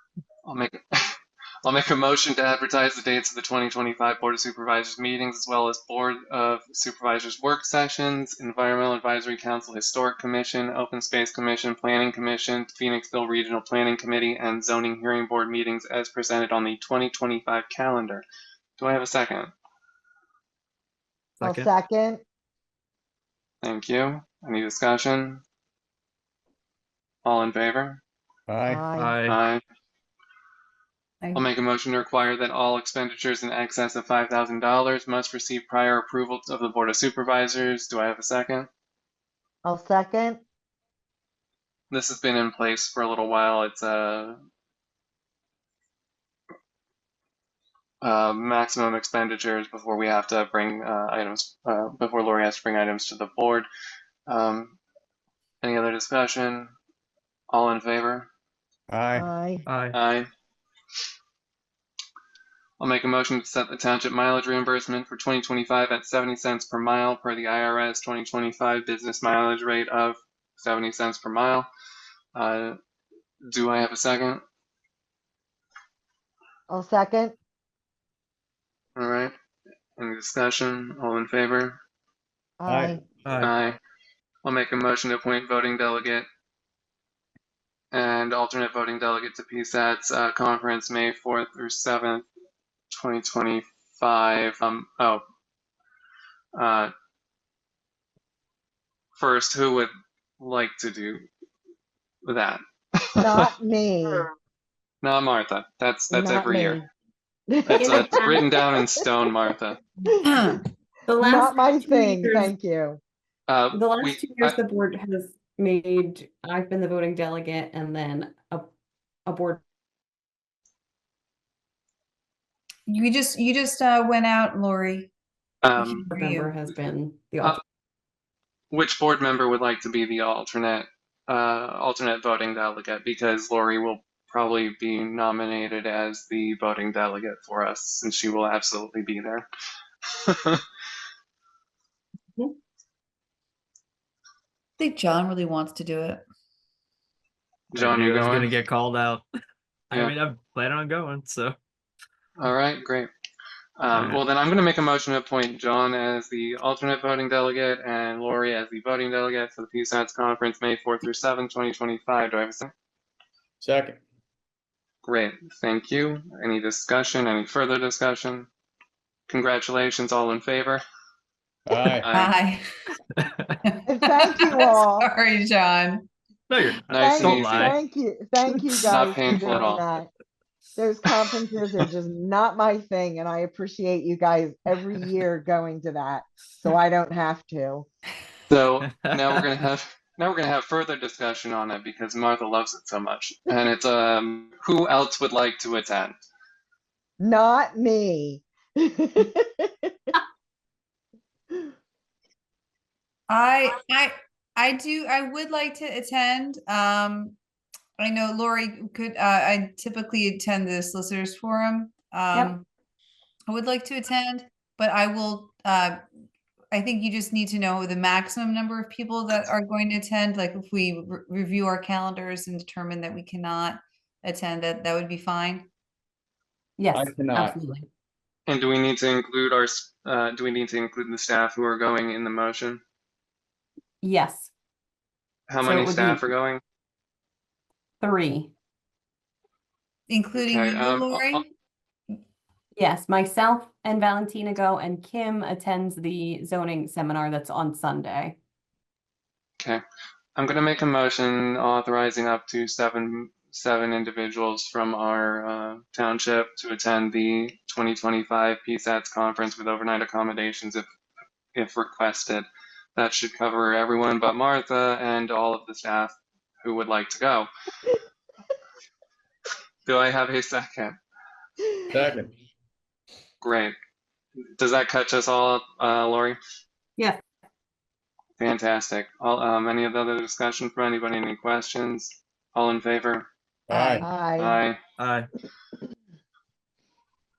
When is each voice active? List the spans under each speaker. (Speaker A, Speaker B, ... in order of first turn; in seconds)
Speaker A: 0.5-1.1, 1.6-18.2, 18.8-19.5, 23.6-25.4, 27.2-28.0, 29.3-29.6, 31.4-38.7, 41.9-44.4, 48.0-53.7, 54.3-54.8, 55.6-56.7, 57.5-58.3, 59.9-60.3, 62.8-71.7, 72.3-72.8, 73.5-74.4, 79.0-79.3, 80.0-81.8, 83.4-83.8, 84.5-86.3, 87.9-92.3, 92.9-95.2, 96.5-96.9, 99.2-101.2, 102.2-103.5, 105.0-106.8, 107.7-109.8, 113.5-114.6, 125.6-126.1, 128.7-139.5, 140.2-140.6, 147.7-148.5, 152.4-153.1, 153.8-162.7, 165.0-168.5, 169.3-170.8, 172.0-172.4, 176.9-177.8, 178.9-179.8, 188.5-196.2, 228.5-232.8, 235.5-236.6, 240.4-241.4, 250.4-260.9, 261.6-267.5, 269.9-271.0, 273.4-273.8, 274.6-276.4, 278.4-283.3, 284.4-284.8
Speaker B: 21.4-21.7, 28.9-29.4, 59.7-60.0, 83.2-83.5, 147.8-149.2, 149.9-151.6, 153.9-154.2, 173.2-173.6, 176.5-177.8, 188.8-189.2, 285.0-285.3
Speaker C: 21.4-22.2, 28.6-29.2, 39.6-40.4, 59.2-59.6, 76.7-77.4, 82.6-83.1, 103.2-104.3, 106.1-106.8, 107.5-108.5, 111.2-113.0, 173.9-175.1, 177.0-180.1, 180.8-187.9, 197.2-200.2, 284.0-284.6
Speaker D: 28.5-28.9, 58.9-59.3, 82.7-83.1, 163.6-164.0, 171.7-172.1, 226.9-227.6, 271.9-272.3, 283.7-284.1
Speaker E: 107.7-108.5, 111.1-112.5, 113.7-118.7, 119.3-119.6, 126.1-127.6, 226.8-227.9, 234.0-234.5, 235.6-236.3, 238.0-238.5, 242.8-248.4, 283.7-284.0
Speaker F: 110.2-110.6, 122.9-125.1, 125.8-126.5, 144.8-146.2, 172.1-172.6, 173.7-176.1, 203.3-207.4, 208.0-212.6, 213.5-216.0, 216.7-225.7, 240.1-241.4